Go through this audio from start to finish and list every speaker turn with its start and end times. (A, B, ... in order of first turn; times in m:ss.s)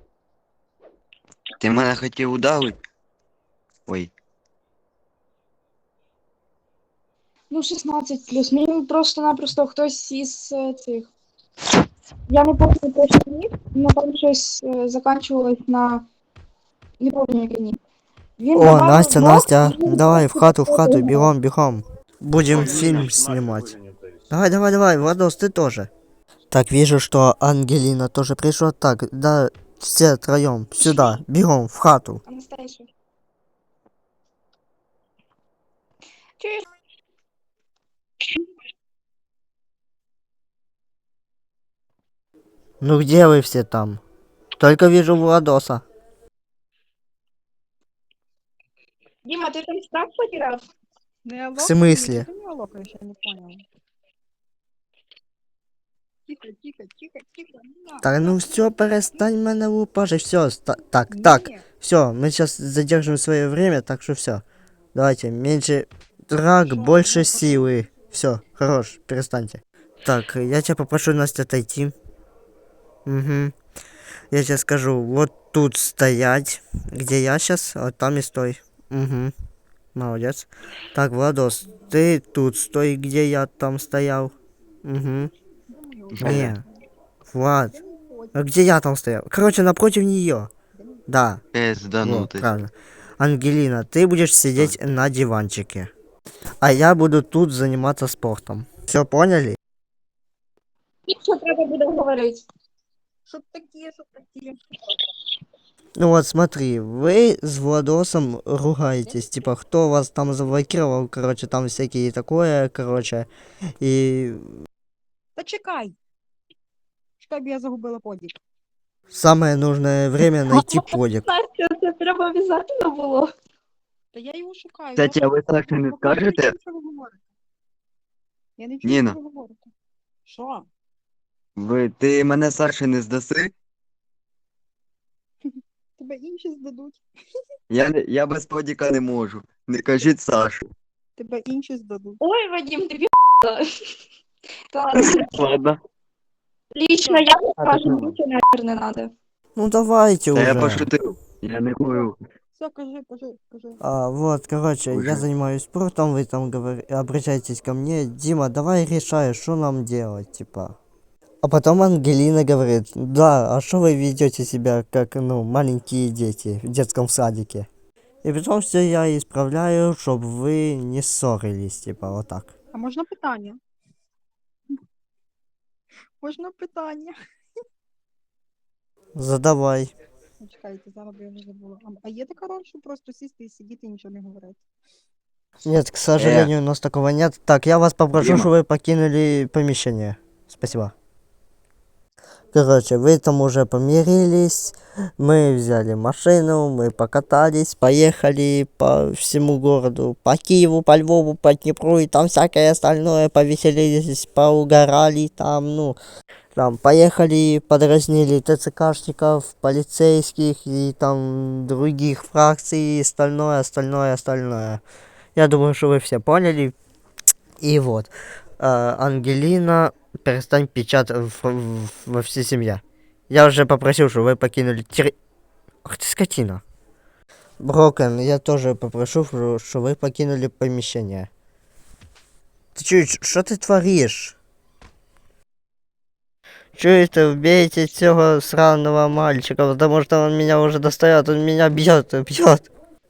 0:01.6-0:02.8 A
0:07.5-0:11.1 B
0:12.3-0:16.0 B
0:17.0-0:17.8 B
0:18.4-0:21.3 B
0:18.5-0:23.8 C
0:22.6-0:23.1 A
0:24.3-0:25.9 C
0:26.5-0:32.2 C
0:32.2-0:32.9 B
0:36.4-0:36.6 B
0:42.8-0:44.0 C
0:44.6-0:45.8 C
0:49.2-0:50.6 B
0:51.2-0:53.6 D
0:51.6-0:52.3 C
0:56.3-0:59.3 D
0:58.0-1:04.4 C
1:01.1-1:01.6 D
1:04.9-1:11.9 C
1:06.6-1:07.7 D
1:13.0-1:13.5 C
1:14.3-1:19.3 C
1:19.9-1:25.3 C
1:25.7-1:26.8 D
1:26.2-1:26.5 A
1:26.2-1:26.6 C
1:27.3-1:27.8 C
1:27.7-1:28.5 D
1:28.3-1:30.5 C
1:30.7-1:31.0 D
1:31.1-1:31.4 C
1:31.5-1:32.5 A
1:32.0-1:35.9 C
1:36.6-1:39.6 C
1:41.1-1:42.4 B
1:43.3-1:44.6 D
1:46.0-1:53.3 C
1:49.0-1:49.3 D
1:53.8-1:54.5 C
1:55.4-1:56.0 D
1:57.2-1:58.4 D
1:59.1-2:01.2 C
2:00.5-2:03.3 B
2:04.1-2:07.2 D
2:05.0-2:06.5 A
2:08.6-2:09.7 D
2:08.8-2:09.2 A
2:10.3-2:10.7 D
2:11.6-2:13.5 A
2:15.4-2:17.0 D
2:17.7-2:20.6 A
2:21.2-2:22.2 D
2:22.2-2:23.6 B
2:24.7-2:25.3 B
2:25.0-2:25.8 A
2:26.7-2:29.1 B
2:27.6-2:28.1 A
2:29.6-2:30.9 C
2:30.3-2:32.2 A
2:32.5-2:33.8 D
2:33.8-2:40.8 C
2:34.9-2:35.2 A
2:41.4-2:47.7 C
2:48.2-2:52.5 C
2:52.7-2:53.6 D
2:56.2-2:57.1 D
2:59.2-2:59.9 C
3:00.4-3:04.6 D
3:05.6-3:10.9 C
3:06.2-3:06.5 A
3:08.2-3:08.5 A
3:12.5-3:26.0 C
3:26.5-3:34.8 C
3:35.3-3:36.7 C
3:37.6-3:45.1 C
3:45.8-3:46.6 C
3:47.6-3:51.3 C
3:52.7-3:54.4 C
3:56.7-4:02.7 C